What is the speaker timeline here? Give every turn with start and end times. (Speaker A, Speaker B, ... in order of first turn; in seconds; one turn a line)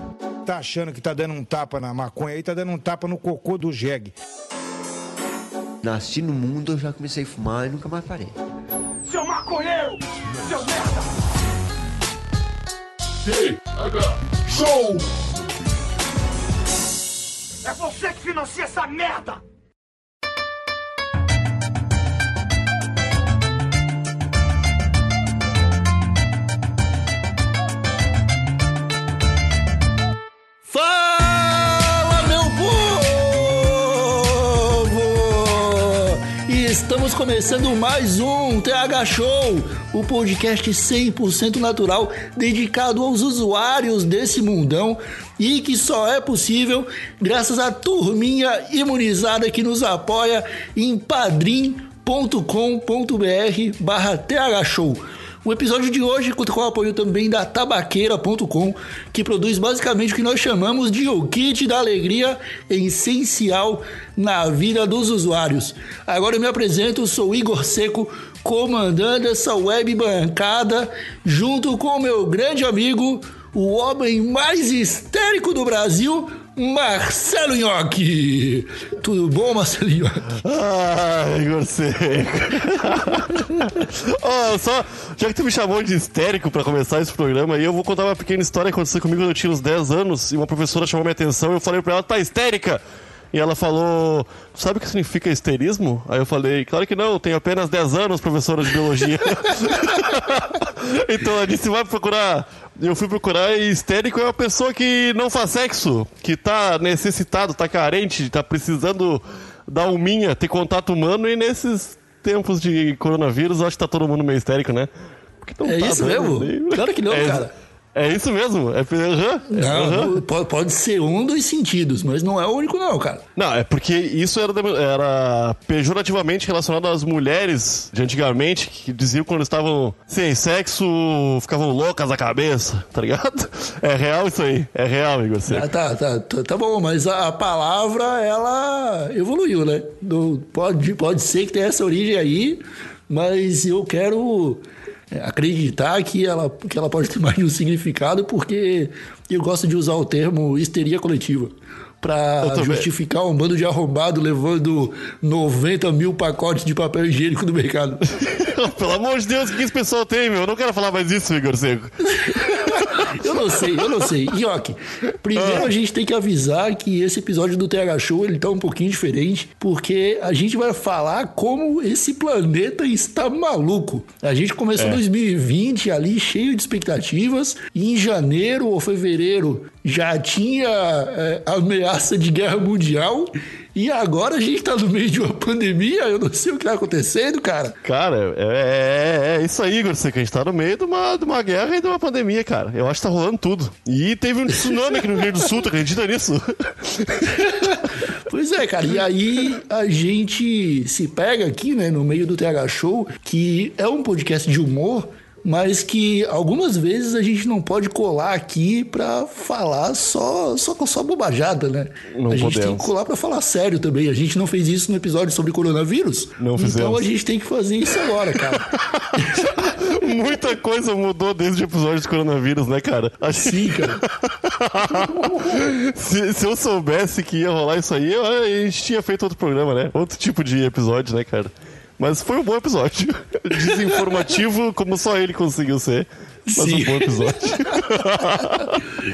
Speaker A: 0.5-4.1
Speaker B: 5.8-8.3
Speaker C: 9.0-11.1
Speaker C: 13.3-15.0
Speaker C: 17.6-19.4
Speaker D: 30.7-80.4
Speaker E: 80.4-92.8
Speaker E: 93.3-114.9
Speaker E: 115.4-120.2
Speaker D: 115.6-117.5
Speaker D: 119.5-123.2
Speaker E: 123.3-135.7
Speaker D: 135.5-158.1
Speaker E: 152.4-152.9
Speaker E: 158.2-164.1
Speaker D: 162.1-187.8
Speaker E: 165.3-165.7
Speaker E: 187.8-197.7
Speaker D: 197.5-219.9
Speaker E: 212.1-212.9
Speaker E: 216.4-217.0
Speaker E: 218.1-238.8
Speaker D: 223.3-224.0
Speaker D: 224.9-225.6
Speaker D: 233.6-234.0
Speaker D: 236.5-237.8